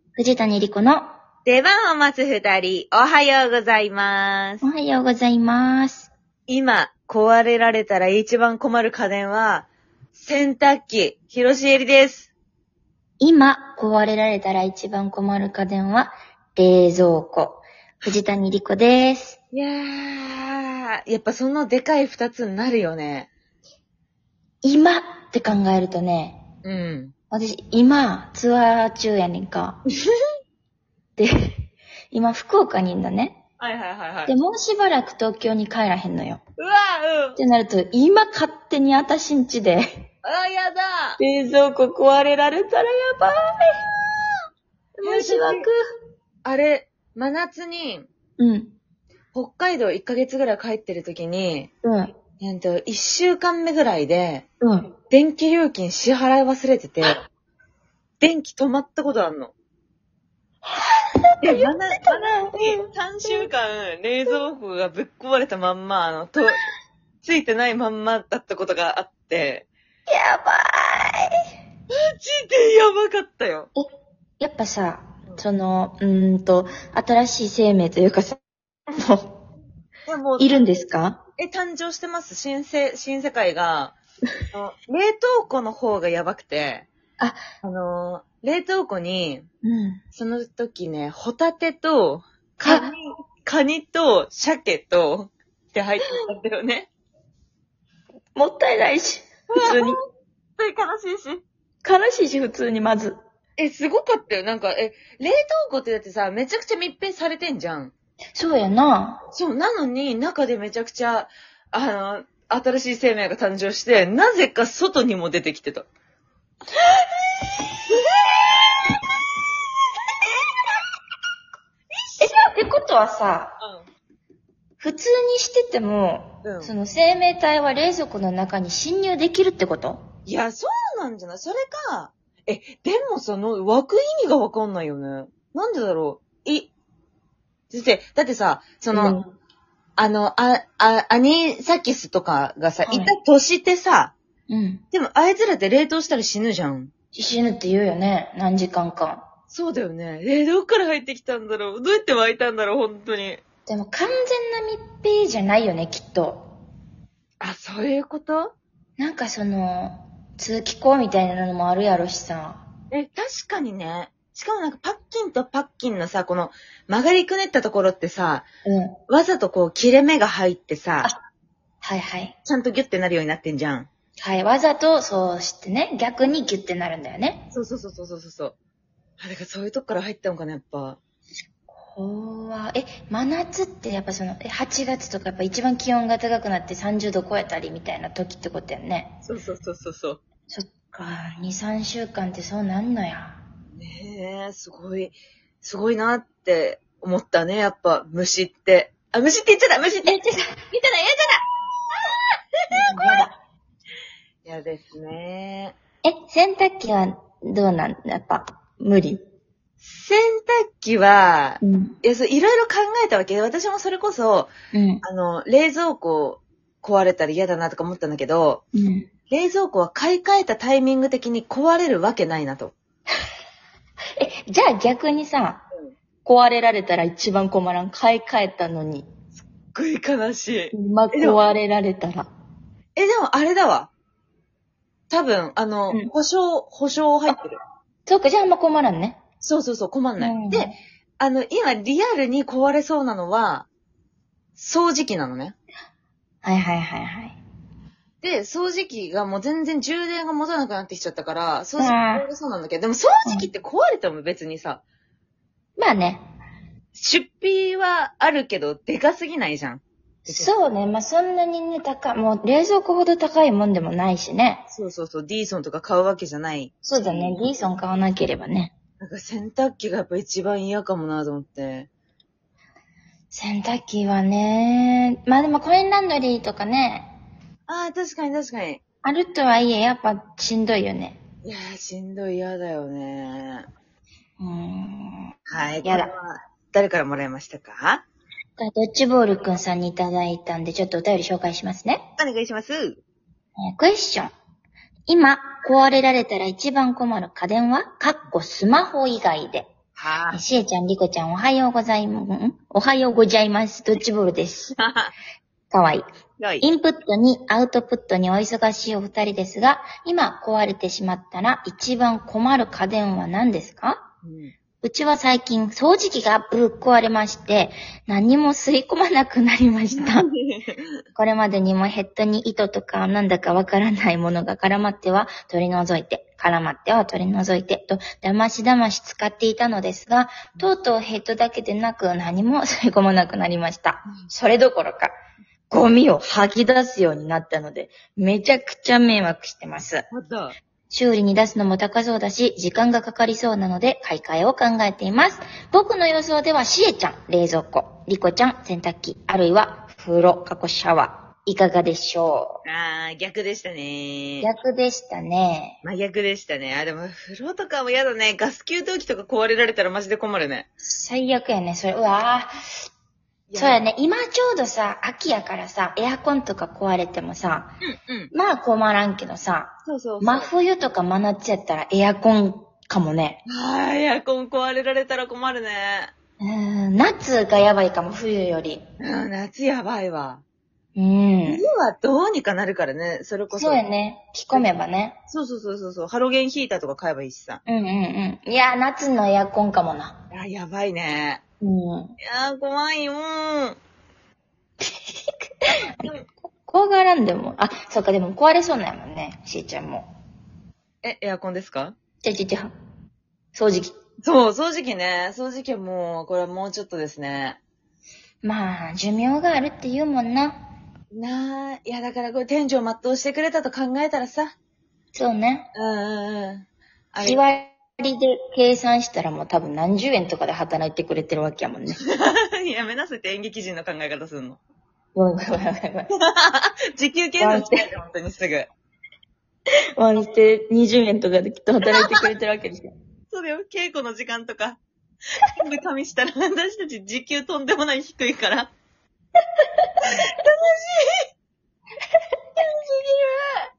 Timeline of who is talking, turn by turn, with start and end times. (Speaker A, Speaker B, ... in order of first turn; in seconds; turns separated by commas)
Speaker A: 0.2-1.1, Speaker B: 1.5-4.7, Speaker A: 4.6-6.1, Speaker B: 6.5-12.3, Speaker A: 13.2-19.4, Speaker B: 19.5-23.3, Speaker A: 24.6-26.4, Speaker B: 26.6-27.1, Speaker A: 27.3-29.8, Speaker A: 31.2-31.6, Speaker A: 32.1-33.4, Speaker B: 33.6-34.3, Speaker A: 34.3-36.4, Speaker B: 36.6-37.4, Speaker A: 37.4-40.1, Speaker B: 40.2-41.2, Speaker A: 41.2-43.5, Speaker A: 45.0-45.8, Speaker B: 45.0-45.7, Speaker B: 46.5-48.1, Speaker A: 48.4-48.8, Speaker B: 49.3-51.7, Speaker A: 51.8-52.2, Speaker B: 52.4-54.5, Speaker A: 54.6-54.9, Speaker B: 55.1-57.2, Speaker B: 58.2-59.5, Speaker A: 60.8-63.5, Speaker B: 61.4-66.6, Speaker B: 67.2-69.7, Speaker A: 70.1-71.3, Speaker B: 71.9-73.7, Speaker A: 74.4-79.3, Speaker B: 80.1-80.8, Speaker A: 80.4-81.2, Speaker B: 81.4-84.0, Speaker B: 84.5-86.9, Speaker A: 87.2-87.4, Speaker B: 87.6-89.5, Speaker A: 89.6-90.0, Speaker B: 90.1-96.9, Speaker A: 92.6-92.9, Speaker A: 98.4-100.0, Speaker B: 99.5-100.0, Speaker B: 100.6-101.4, Speaker A: 101.8-103.2, Speaker B: 103.6-107.9, Speaker A: 108.4-109.2, Speaker B: 109.3-115.9, Speaker A: 122.2-123.6, Speaker B: 123.6-123.8, Speaker A: 124.8-130.1, Speaker B: 126.4-126.7, Speaker B: 130.3-136.7, Speaker B: 137.7-139.2, Speaker A: 138.9-139.3, Speaker B: 140.0-144.1, Speaker A: 142.8-143.1, Speaker A: 144.5-144.8, Speaker B: 144.9-146.9, Speaker A: 147.1-149.3, Speaker B: 149.5-153.4, Speaker A: 153.7-156.5, Speaker B: 157.4-158.5, Speaker A: 159.0-162.7, Speaker B: 162.9-168.4, Speaker A: 168.7-169.0, Speaker B: 169.1-171.1, Speaker A: 171.8-172.3, Speaker B: 172.4-173.9, Speaker A: 174.2-177.4, Speaker B: 177.5-178.6, Speaker B: 179.2-181.0, Speaker A: 181.7-189.2, Speaker B: 189.2-190.2, Speaker A: 190.5-193.4, Speaker B: 193.8-200.2, Speaker A: 200.0-200.6, Speaker B: 200.7-201.4, Speaker B: 202.7-203.3, Speaker A: 202.7-203.4, Speaker B: 204.4-205.8, Speaker A: 206.0-209.2, Speaker B: 209.8-214.5, Speaker A: 211.6-212.0, Speaker A: 214.7-215.0, Speaker B: 215.0-218.6, Speaker A: 218.7-219.1, Speaker B: 219.3-222.8, Speaker A: 224.2-225.7, Speaker A: 226.2-229.1, Speaker B: 229.7-231.4, Speaker A: 230.7-232.3, Speaker B: 233.0-233.9, Speaker B: 235.1-237.6, Speaker A: 238.1-239.2, Speaker B: 239.4-243.7, Speaker A: 240.2-240.8, Speaker B: 244.6-245.6, Speaker A: 246.4-247.4, Speaker B: 248.2-254.8, Speaker A: 251.8-252.3, Speaker A: 255.8-256.3, Speaker B: 256.9-260.5, Speaker A: 260.3-264.7, Speaker B: 264.7-267.4, Speaker A: 266.8-268.7, Speaker B: 269.0-271.9, Speaker A: 273.3-277.1, Speaker B: 277.7-278.8, Speaker A: 279.0-281.2, Speaker B: 281.4-283.7, Speaker A: 284.4-286.1, Speaker B: 285.5-288.1, Speaker A: 288.6-292.1, Speaker B: 292.2-293.0, Speaker A: 293.6-294.3, Speaker A: 295.1-299.7, Speaker B: 300.0-300.4, Speaker A: 300.3-304.8, Speaker B: 304.8-305.1, Speaker A: 305.7-306.1, Speaker B: 306.4-306.7, Speaker A: 306.6-314.1, Speaker B: 314.2-314.5, Speaker A: 314.8-320.3, Speaker B: 320.0-321.0, Speaker A: 321.1-335.1, Speaker A: 335.7-340.1, Speaker B: 340.1-340.6, Speaker A: 340.9-352.6, Speaker B: 352.6-354.5, Speaker A: 354.4-355.8, Speaker B: 355.8-360.7, Speaker A: 360.8-362.5, Speaker B: 363.5-363.8, Speaker A: 363.6-367.8, Speaker B: 367.8-368.3, Speaker A: 368.3-373.4, Speaker B: 369.9-370.5, Speaker B: 373.5-376.1, Speaker A: 376.4-378.9, Speaker B: 379.0-380.4, Speaker A: 380.9-381.6, Speaker B: 381.5-383.8, Speaker A: 383.5-385.2, Speaker B: 385.3-387.6, Speaker A: 387.7-390.2, Speaker B: 390.3-391.4, Speaker A: 391.6-392.2, Speaker B: 392.2-393.8, Speaker B: 395.7-396.2, Speaker A: 396.0-400.1, Speaker B: 401.0-402.0, Speaker A: 402.2-402.7, Speaker A: 403.5-404.0, Speaker B: 404.2-407.6, Speaker A: 408.4-410.6, Speaker B: 411.1-414.5, Speaker A: 415.1-415.7, Speaker B: 415.8-417.4, Speaker A: 417.2-422.0, Speaker B: 422.1-424.6, Speaker A: 425.1-426.1, Speaker B: 426.1-428.7, Speaker A: 427.4-427.9, Speaker A: 430.0-432.9, Speaker B: 433.3-434.8, Speaker B: 435.5-438.7, Speaker A: 439.6-439.9, Speaker B: 440.0-441.2, Speaker B: 442.6-443.4